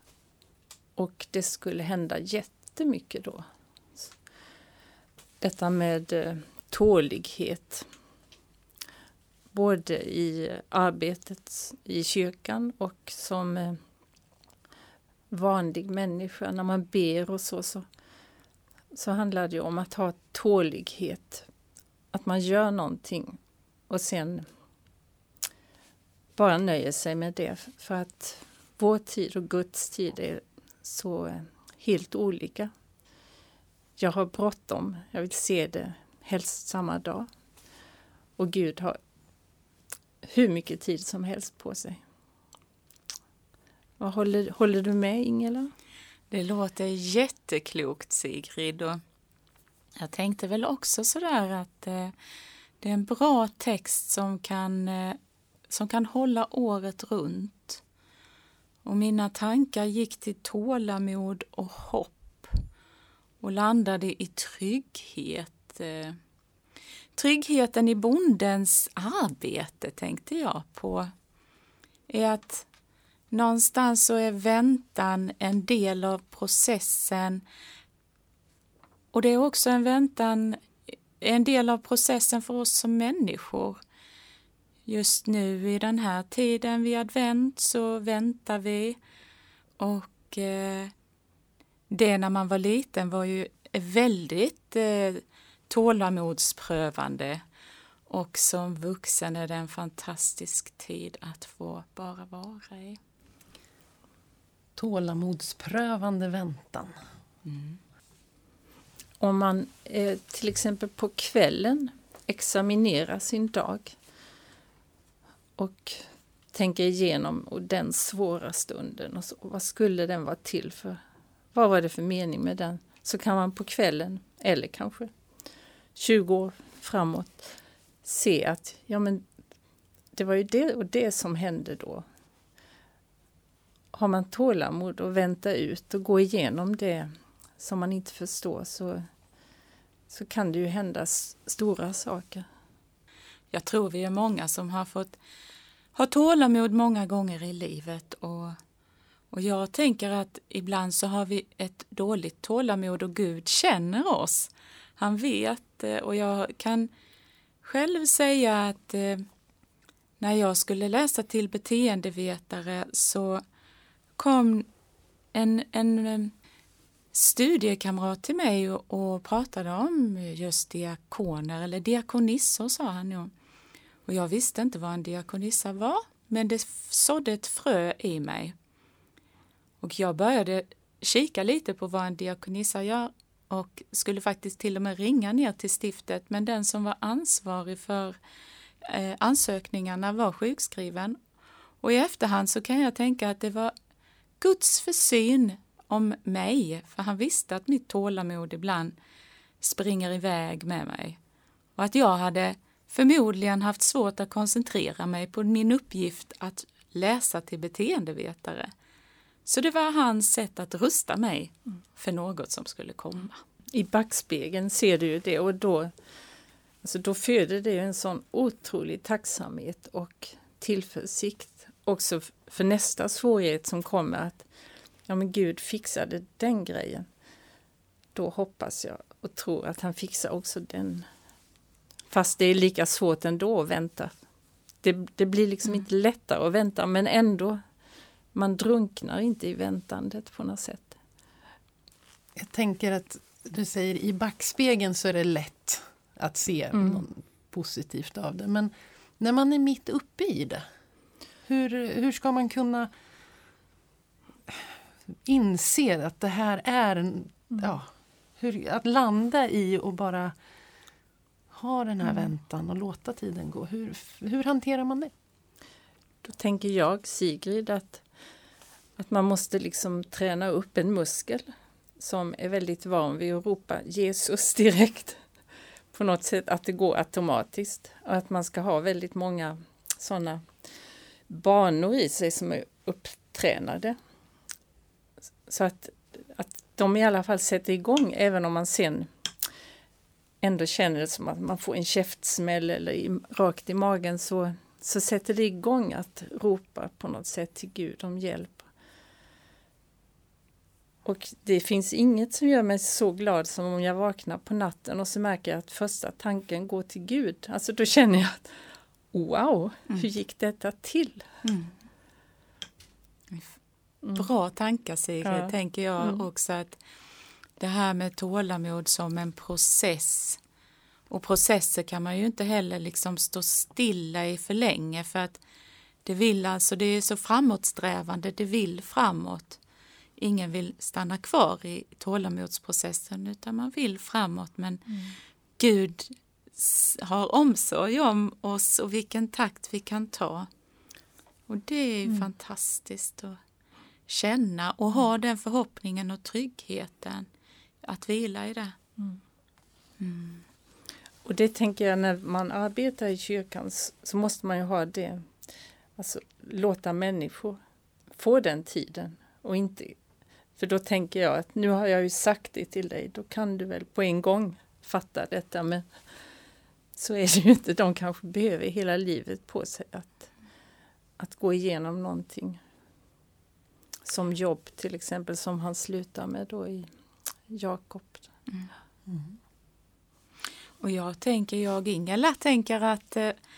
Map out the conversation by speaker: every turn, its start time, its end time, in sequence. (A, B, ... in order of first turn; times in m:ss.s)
0:01.0-0:03.4 A
0:05.4-0:07.8 A
0:09.5-0:13.8 A
0:15.3-0:17.8 A
0:18.9-0:21.4 A
0:22.1-0:24.4 A
0:26.4-0:32.7 A
0:34.0-0:37.3 A
0:38.4-0:39.0 A
0:40.2-0:42.0 A
0:44.0-0:45.7 A
0:46.3-0:49.0 B
0:50.0-0:52.1 B
0:52.8-0:55.2 B
0:55.7-0:57.8 B
0:58.8-1:02.6 B
1:03.4-1:06.2 B
1:07.1-1:11.1 B
1:12.1-1:12.7 B
1:13.3-1:17.4 B
1:19.1-1:23.8 B
1:24.8-1:29.0 B
1:29.8-1:30.9 B
1:31.9-1:37.4 B
1:38.1-1:43.0 B
1:44.8-1:47.0 C
1:47.4-1:47.8 B
1:49.2-1:54.0 A
1:55.6-2:01.0 A
2:01.5-2:05.1 A
2:05.9-2:09.2 A
2:10.1-2:12.0 A
2:13.9-2:19.0 A
2:20.1-2:22.4 A
2:23.5-2:25.2 B
2:25.9-2:28.6 B
2:29.3-2:36.9 B
2:37.6-2:39.2 B
2:40.2-2:43.4 B
2:44.2-2:44.7 B
2:45.3-2:46.3 B
2:47.1-2:53.3 B
2:54.0-2:58.5 B
2:59.8-3:08.2 B
3:08.8-3:11.2 B
3:11.8-3:13.7 B
3:14.4-3:18.9 B
3:19.6-3:21.2 B
3:21.8-3:28.7 B
3:29.4-3:33.4 B
3:33.7-3:35.9 A
3:36.8-3:44.5 A
3:45.1-3:47.0 A
3:48.1-3:51.0 A
3:52.1-3:54.1 A
3:54.8-3:57.6 A
3:58.3-4:01.0 A
4:02.4-4:10.6 C
4:06.7-4:07.0 A
4:11.4-4:12.9 C
4:15.2-4:20.3 C
4:21.5-4:25.1 C
4:26.2-4:28.0 A
4:29.0-4:35.2 A
4:35.9-4:40.5 A
4:41.3-4:44.0 A
4:45.5-4:49.1 A
4:50.4-4:58.7 A
5:01.0-5:11.3 A
5:11.4-5:11.7 B
5:13.3-5:13.6 B
5:14.0-5:14.3 A
5:14.1-5:16.8 B
5:15.2-5:16.3 A
5:17.6-5:20.4 B
5:21.1-5:25.4 B
5:26.0-5:29.6 B
5:30.2-5:35.0 B
5:35.6-5:40.5 B
5:41.5-5:43.4 B
5:44.1-5:47.3 B
5:47.8-5:48.7 B
5:50.0-5:50.4 B
5:51.2-5:55.3 A
5:56.0-5:57.6 A
5:58.1-6:00.0 A
6:00.6-6:05.9 A
6:07.0-6:10.3 A
6:11.2-6:12.6 A
6:14.0-6:16.9 A
6:17.5-6:18.3 A
6:20.8-6:23.3 B